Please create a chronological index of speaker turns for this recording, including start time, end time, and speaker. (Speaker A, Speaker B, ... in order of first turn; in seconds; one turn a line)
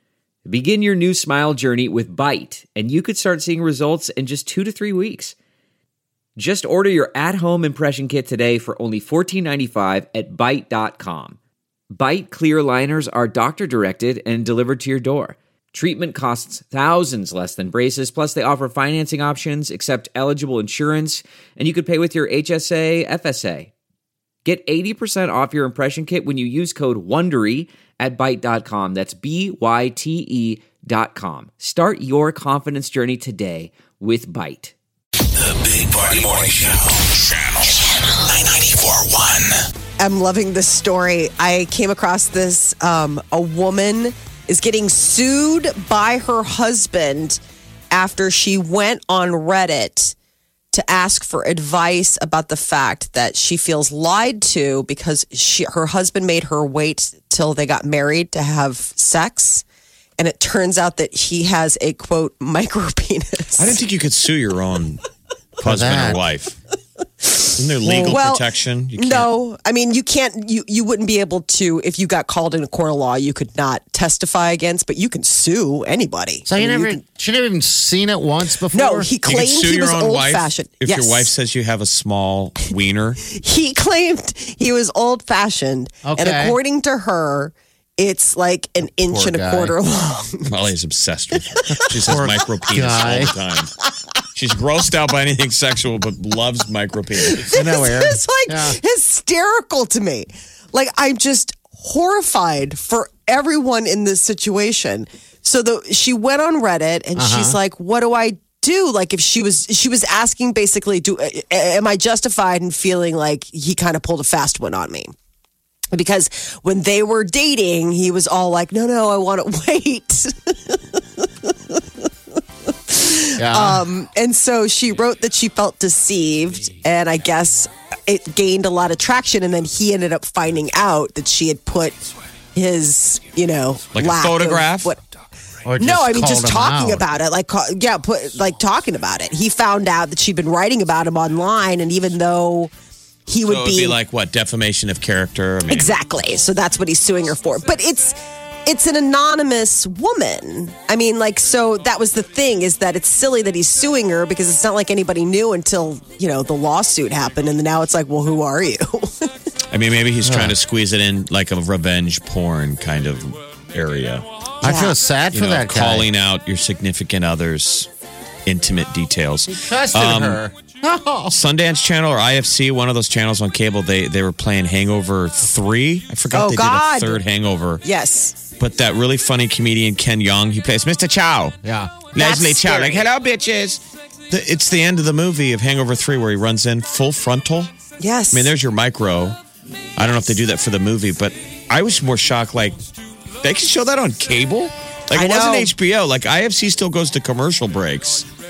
Speaker A: 0.5-5.3
Speaker A: 6.4-11.4
Speaker A: 11.9-23.7
Speaker A: 24.4-34.7
Speaker B: 35.4-39.6
Speaker C: 40.0-47.4
Speaker C: 47.9-50.1
Speaker C: 50.7-59.6
Speaker C: 60.2-63.8
Speaker D: 63.6-65.0
Speaker D: 65.6-66.6
Speaker E: 65.6-66.2
Speaker D: 67.4-69.3
Speaker C: 67.8-77.0
Speaker E: 67.9-68.2
Speaker E: 76.5-79.1
Speaker C: 78.7-81.3
Speaker D: 79.2-83.2
Speaker C: 83.2-90.5
Speaker E: 86.0-86.6
Speaker E: 88.9-89.8
Speaker D: 90.5-93.7
Speaker E: 91.7-93.3
Speaker D: 94.3-97.5
Speaker C: 97.2-115.1
Speaker E: 97.4-98.8
Speaker E: 107.2-107.6
Speaker C: 115.9-121.0
Speaker C: 122.9-132.0
Speaker E: 123.4-123.8
Speaker C: 132.5-135.0
Speaker D: 133.9-134.9
Speaker E: 135.7-137.1
Speaker C: 135.8-142.7
Speaker C: 143.3-144.0
Speaker D: 143.4-146.0
Speaker C: 145.7-159.3
Speaker D: 159.7-164.2
Speaker E: 160.2-160.6
Speaker E: 164.6-166.1
Speaker C: 164.6-164.9
Speaker D: 165.3-167.9
Speaker D: 168.4-170.4
Speaker E: 169.5-171.3
Speaker D: 171.3-177.8
Speaker C: 176.3-177.2
Speaker C: 177.8-178.4
Speaker D: 178.6-187.7
Speaker E: 181.6-182.1
Speaker C: 182.2-183.1
Speaker C: 188.0-188.5
Speaker D: 188.3-189.4
Speaker D: 190.0-192.8
Speaker D: 193.4-198.3
Speaker C: 195.1-195.7